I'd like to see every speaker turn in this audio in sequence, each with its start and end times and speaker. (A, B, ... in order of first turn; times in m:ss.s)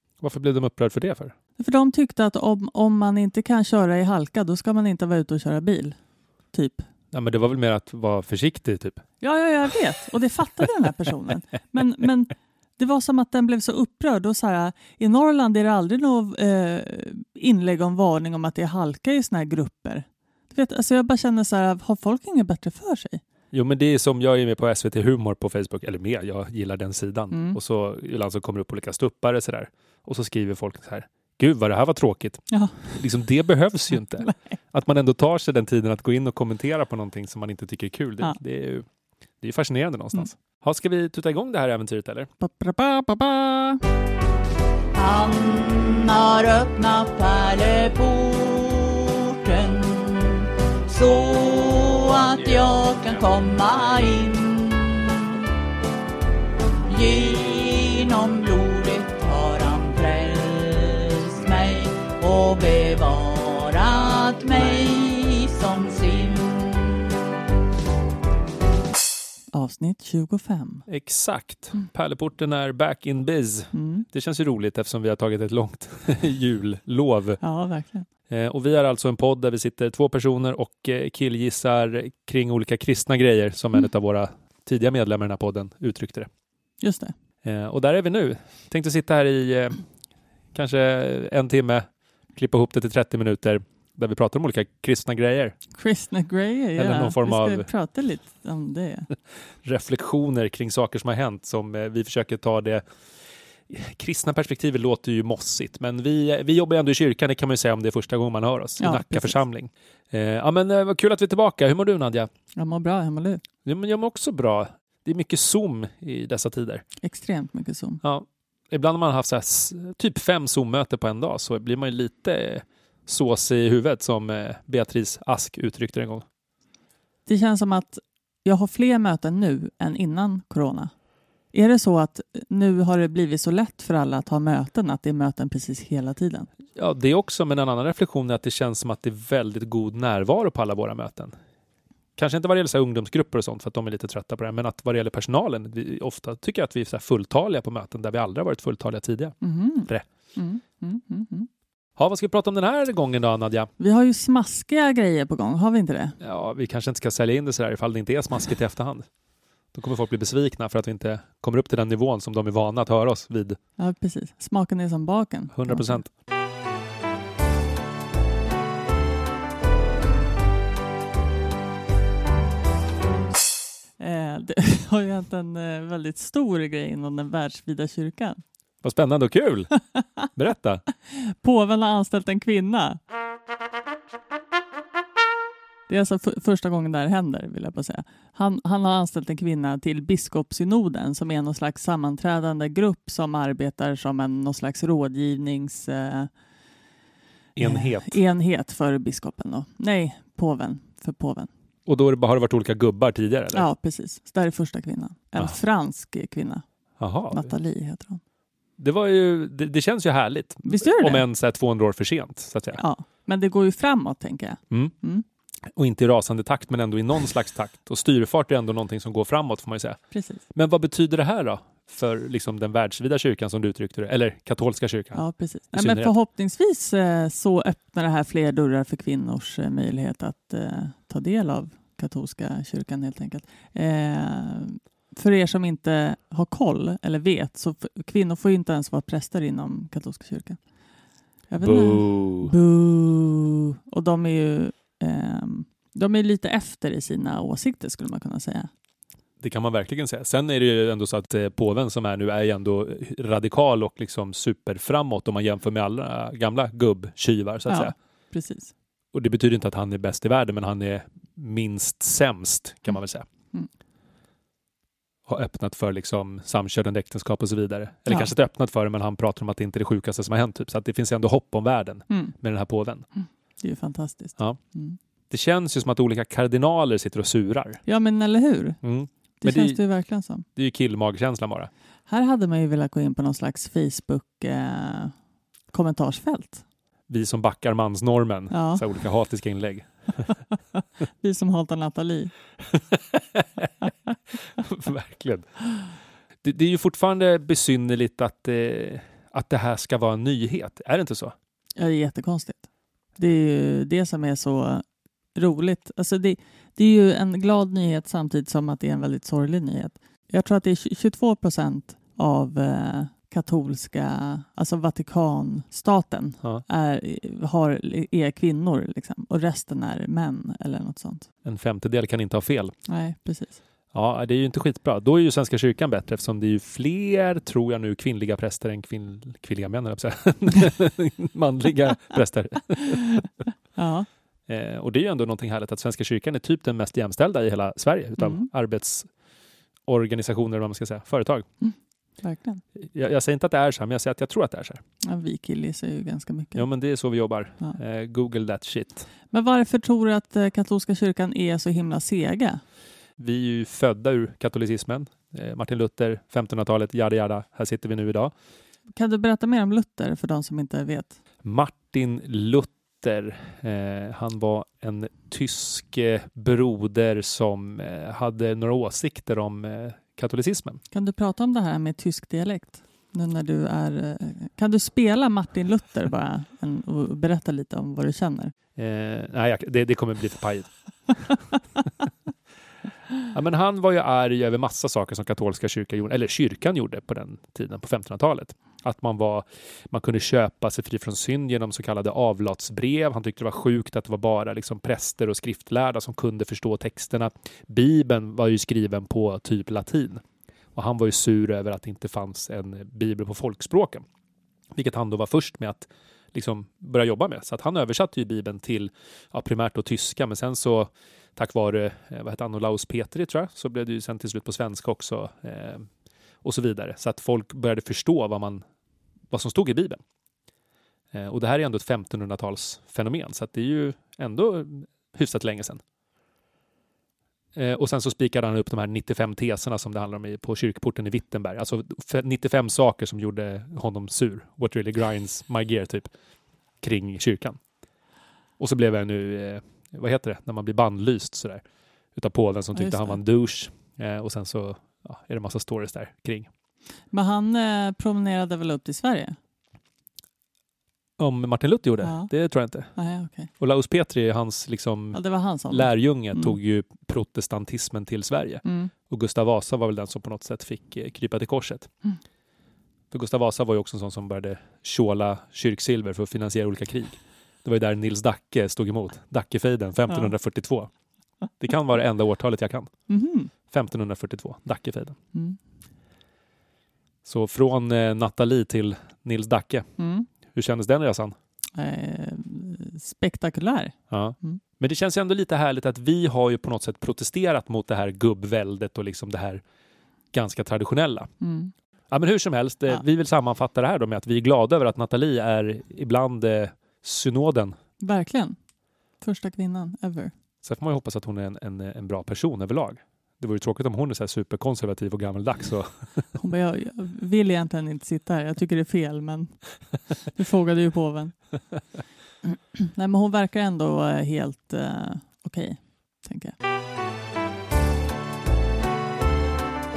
0:00.2-0:01.3 A
0:01.6-0:06.0 B
0:06.5-0:06.8 B
0:07.1-0:09.0 A
0:09.2-0:23.2 B
0:23.5-0:38.8 A
0:27.3-0:27.6 B
0:32.5-0:33.0 B
0:39.4-0:42.3 A
0:42.4-0:43.8 B
0:44.9-0:55.3 C
0:56.9-1:07.2 C
1:09.5-1:10.9 B
1:10.9-1:17.4 A
1:13.7-1:14.1 B
1:17.4-1:18.1 B
1:18.3-1:26.3 A
1:26.8-1:27.1 B
1:27.4-1:29.8 A
1:30.5-1:35.6 A
1:35.7-1:39.1 B
1:36.8-1:37.7 A
1:39.5-1:42.8 A
1:43.7-1:52.3 A
1:48.8-1:49.4 B
1:52.6-1:53.4 B
1:53.6-1:56.8 A
1:57.0-1:58.0 B
1:58.0-2:06.2 A
2:07.3-2:10.9 B
2:11.5-2:16.5 B
2:16.8-2:21.3 A
2:22.2-2:29.3 A
2:29.4-2:31.5 B
2:32.0-2:33.7 A
2:33.8-2:36.2 B
2:36.2-2:39.1 A
2:39.7-2:43.6 A
2:43.8-2:46.0 B
2:45.5-2:46.1 A
2:54.0-2:58.4 B
2:58.8-2:59.7 A
3:00.3-3:00.8 A
3:01.1-3:03.0 B
3:05.9-3:16.3 B
3:17.6-3:18.2 A
3:17.6-3:21.5 B
3:21.8-3:23.7 A
3:23.5-3:26.6 B
3:27.0-3:27.5 A
3:27.3-3:28.2 B
3:28.8-3:32.8 A
3:30.7-3:31.2 B
3:32.8-3:35.2 B
3:35.7-3:40.0 A
3:40.1-3:40.4 B
3:40.5-3:46.1 A
3:45.1-4:00.6 B
4:01.5-4:08.7 B
4:01.6-4:02.5 A
4:09.4-4:17.9 A
4:17.7-4:18.7 B
4:19.1-4:23.3 A
4:25.3-4:33.1 A
4:33.2-4:35.0 B
4:35.3-4:37.8 A
4:37.9-4:38.8 B
4:38.8-4:39.8 A
4:39.4-4:40.4 B
4:40.6-4:41.7 A
4:42.1-4:45.1 B
4:45.7-4:46.6 B
4:47.1-4:50.3 A
4:48.5-4:48.8 B
4:51.2-4:52.3 B
4:52.7-4:55.5 A
4:56.4-5:01.3 A
5:01.8-5:04.8 B
5:05.3-5:21.3 B
5:21.4-5:22.7 A
5:22.9-5:23.6 B
5:23.9-5:33.2 A
5:33.8-5:34.1 B
5:34.5-5:39.1 A
5:38.2-5:38.5 B
5:39.9-5:41.5 A
5:41.6-5:42.6 B
5:42.8-5:44.8 A
5:45.0-5:46.6 B
5:46.6-5:49.1 A
5:49.3-5:52.6 B
5:53.2-5:58.3 A
5:59.0-6:01.2 B
6:01.4-6:10.8 A
6:10.9-6:18.5 B
6:18.8-6:21.3 A
6:23.3-6:40.2 A
6:40.8-6:44.0 A
6:44.7-6:55.9 A
6:56.4-6:58.6 A
6:59.3-7:00.0 A
7:01.1-7:05.8 A
7:07.6-7:16.1 A
7:16.8-7:17.6 A
7:18.6-7:21.6 A
7:22.1-7:26.5 A
7:22.8-7:23.2 B
7:27.1-7:29.4 B
7:31.2-7:32.9 A
7:32.0-7:32.3 B
7:33.0-7:33.5 B
7:33.6-7:41.9 A
7:35.1-7:36.6 B
7:38.6-7:38.9 B
7:43.1-7:50.9 A
7:51.6-7:52.9 A
7:53.1-7:53.5 B
7:53.7-7:55.2 A
7:57.2-7:59.9 A
8:00.0-8:00.3 B
8:00.5-8:01.3 A
8:01.8-8:04.6 B
8:04.1-8:09.6 A
8:10.3-8:11.3 A
8:11.4-8:11.7 B
8:12.1-8:17.8 A
8:18.0-8:18.6 B
8:19.2-8:20.3 B
8:20.6-8:26.4 A
8:26.4-8:29.6 B
8:30.3-8:31.5 B
8:32.4-8:36.5 B